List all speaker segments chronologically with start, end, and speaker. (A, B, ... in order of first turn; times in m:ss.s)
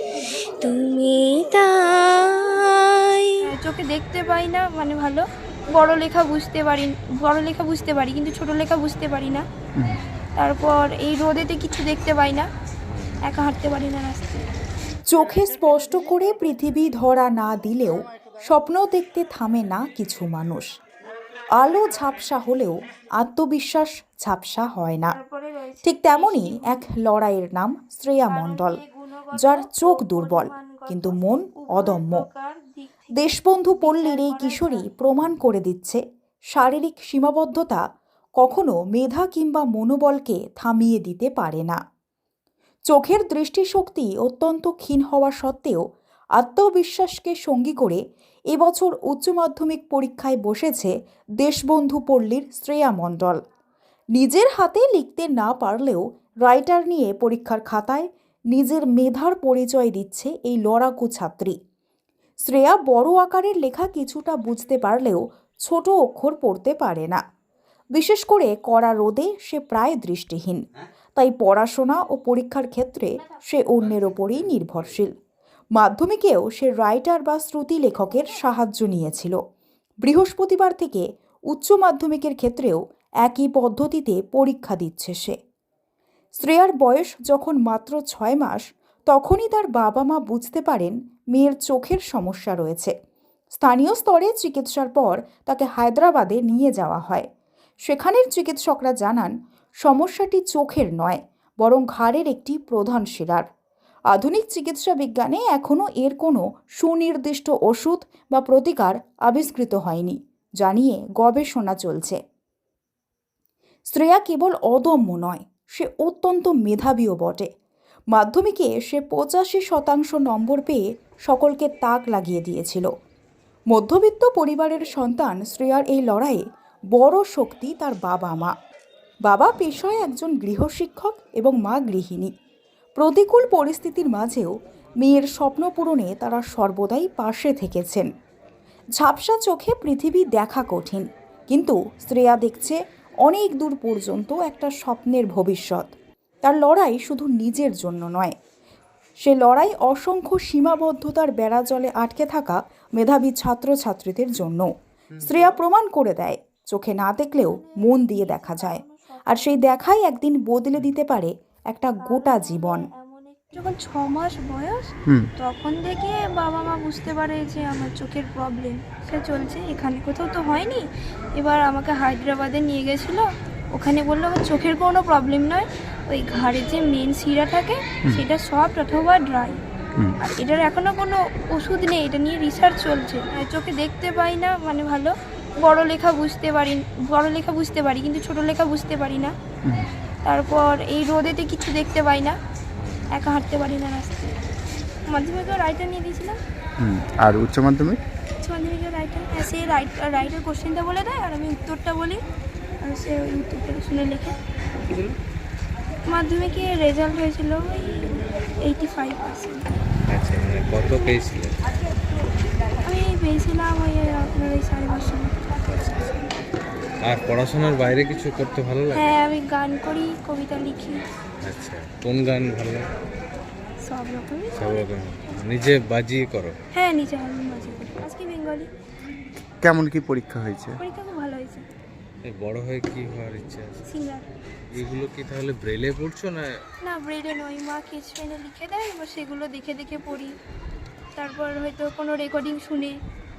0:00.6-0:03.4 A
0:03.5-0:09.4 B
0:10.4-0:12.5 B
0:13.3-0:14.4 B
0:15.1-0:20.7 C
0:21.6-0:25.2 C
0:25.1-0:26.8 B
0:25.8-0:28.8 C
0:28.3-0:34.9 B
0:29.4-0:32.3 C
0:33.2-0:36.0 C
0:36.5-0:37.8 C
0:38.4-0:41.8 C
0:42.9-0:45.8 C
0:46.4-0:48.0 C
0:48.5-0:53.4 C
0:54.2-1:01.6 C
1:02.4-1:07.2 C
1:07.9-1:10.6 C
1:11.2-1:15.1 C
1:15.8-1:19.4 C
1:20.0-1:25.4 C
1:26.4-1:32.9 C
1:33.5-1:37.3 C
1:37.9-1:39.3 C
1:39.8-1:43.4 C
1:44.1-1:52.2 C
1:53.9-1:57.5 C
1:58.1-2:02.9 C
2:03.7-2:06.4 C
2:06.9-2:08.5 C
2:09.3-2:12.3 C
2:13.0-2:18.1 C
2:19.0-2:25.9 C
2:26.4-2:28.3 C
2:29.2-2:34.7 C
2:35.2-2:42.8 C
2:37.3-2:39.8 B
2:42.0-2:59.6 B
3:00.2-3:09.4 B
3:10.2-3:12.4 B
3:13.1-3:14.4 B
3:15.1-3:16.4 B
3:16.8-3:18.0 D
3:18.4-3:22.2 B
3:22.8-3:24.4 B
3:26.1-3:29.6 B
3:30.1-3:31.6 E
3:32.8-3:35.6 B
3:35.7-3:36.2 E
3:37.0-3:39.2 E
3:38.9-3:41.0 B
3:41.4-3:42.9 E
3:43.8-3:44.9 B
3:44.6-3:46.6 E
3:46.7-3:48.7 B
3:49.6-3:50.8 D
3:50.8-3:51.7 B
3:52.3-3:53.8 E
3:53.9-3:54.3 B
3:54.7-3:56.6 E
3:56.8-4:00.3 B
4:01.2-4:03.0 B